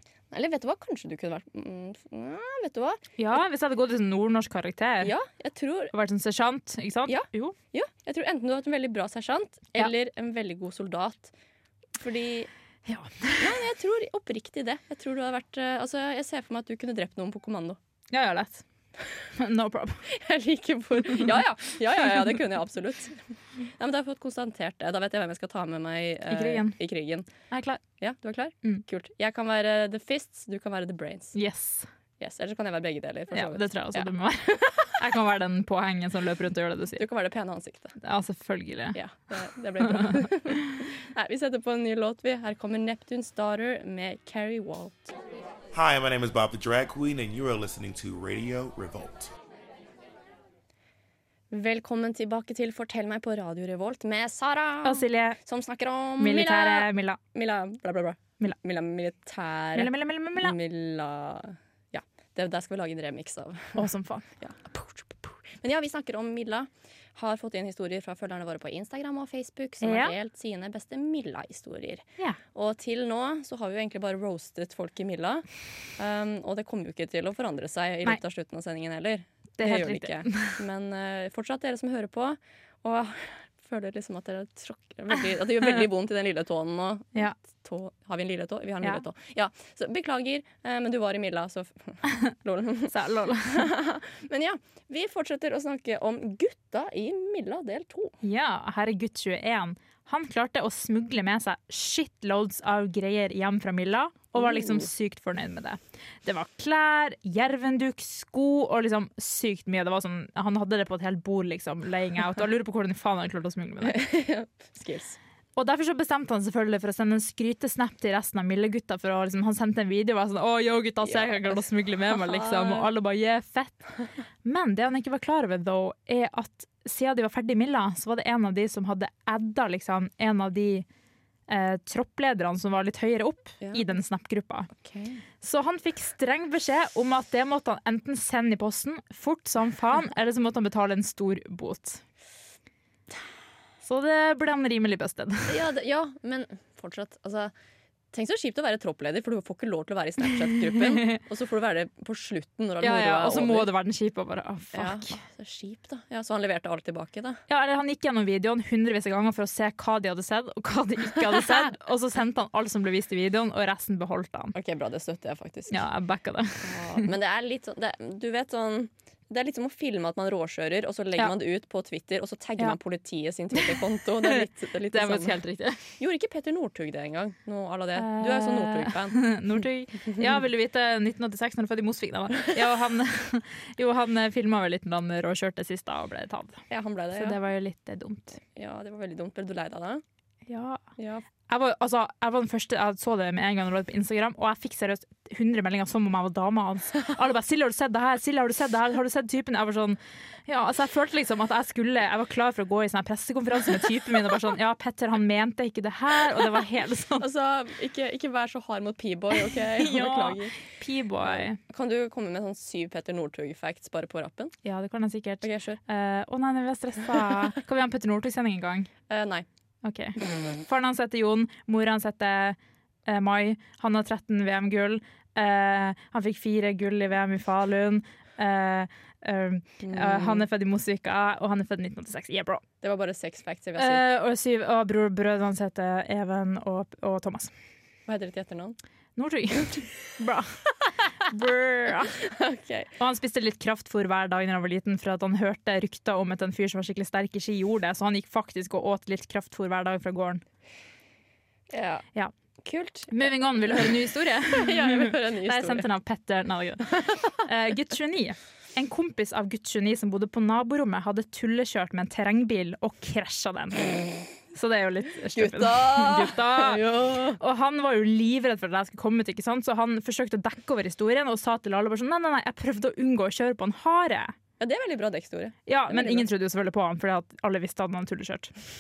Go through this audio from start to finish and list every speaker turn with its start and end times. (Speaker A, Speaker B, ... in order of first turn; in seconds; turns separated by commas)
Speaker A: 0.3-3.0, Speaker B: 3.2-5.1, Speaker A: 5.0-5.9, Speaker B: 5.9-7.5, Speaker A: 7.1-11.3, Speaker A: 12.0-12.5, Speaker B: 12.9-13.6, Speaker A: 13.4-17.8, Speaker B: 18.1-18.6, Speaker B: 19.4-20.0, Speaker A: 20.1-23.2, Speaker A: 23.7-27.3, Speaker B: 26.3-26.8, Speaker B: 27.5-27.8, Speaker A: 28.0-31.4, Speaker B: 31.4-31.9, Speaker A: 32.2-34.1, Speaker B: 33.3-37.0, Speaker A: 37.0-38.0, Speaker B: 38.0-39.0, Speaker A: 38.9-45.1, Speaker B: 39.9-40.3, Speaker C: 45.7-49.3, Speaker A: 51.5-63.9, Speaker B: 54.9-55.4, Speaker B: 56.2-57.2, Speaker B: 59.8-60.6, Speaker B: 63.8-64.2, Speaker A: 64.4-75.4, Speaker B: 69.8-70.1, Speaker A: 76.0-98.2, Speaker B: 79.6-80.6, Speaker B: 92.9-93.7, Speaker B: 98.2-114.1, Speaker A: 104.3-104.9, Speaker A: 113.8-115.2, Speaker B: 115.6-123.9, Speaker A: 121.0-122.9, Speaker B: 124.4-130.9, Speaker B: 131.5-134.7, Speaker A: 133.6-133.9, Speaker A: 134.8-135.2, Speaker B: 135.4-142.0, Speaker B: 143.8-145.6, Speaker A: 145.5-147.5, Speaker A: 148.1-153.7, Speaker B: 150.8-151.1, Speaker B: 152.8-155.2, Speaker A: 154.7-157.4, Speaker B: 157.5-164.6, Speaker A: 164.6-165.8, Speaker B: 165.7-167.0, Speaker A: 166.6-175.4, Speaker B: 174.9-175.8, Speaker A: 176.0-179.2, Speaker B: 178.0-186.6, Speaker A: 186.7-187.4, Speaker B: 187.2-188.4, Speaker A: 188.6-190.0, Speaker B: 190.5-190.8, Speaker A: 191.0-191.2, Speaker B: 191.5-207.3, Speaker A: 207.2-210.6, Speaker B: 209.6-211.6, Speaker A: 211.2-214.5, Speaker B: 214.7-218.9, Speaker A: 215.4-215.8, Speaker A: 219.1-219.5, Speaker B: 219.8-232.6, Speaker A: 229.8-230.5, Speaker A: 232.8-234.0, Speaker B: 233.8-237.5, Speaker A: 238.1-238.8, Speaker B: 239.2-240.5, Speaker B: 241.3-242.2, Speaker A: 242.2-242.9, Speaker B: 243.0-250.4, Speaker A: 251.7-252.1, Speaker A: 252.7-253.9, Speaker B: 253.1-263.9, Speaker A: 254.5-255.9, Speaker B: 264.5-274.3, Speaker A: 265.4-267.4, Speaker A: 274.6-276.2, Speaker B: 275.7-278.5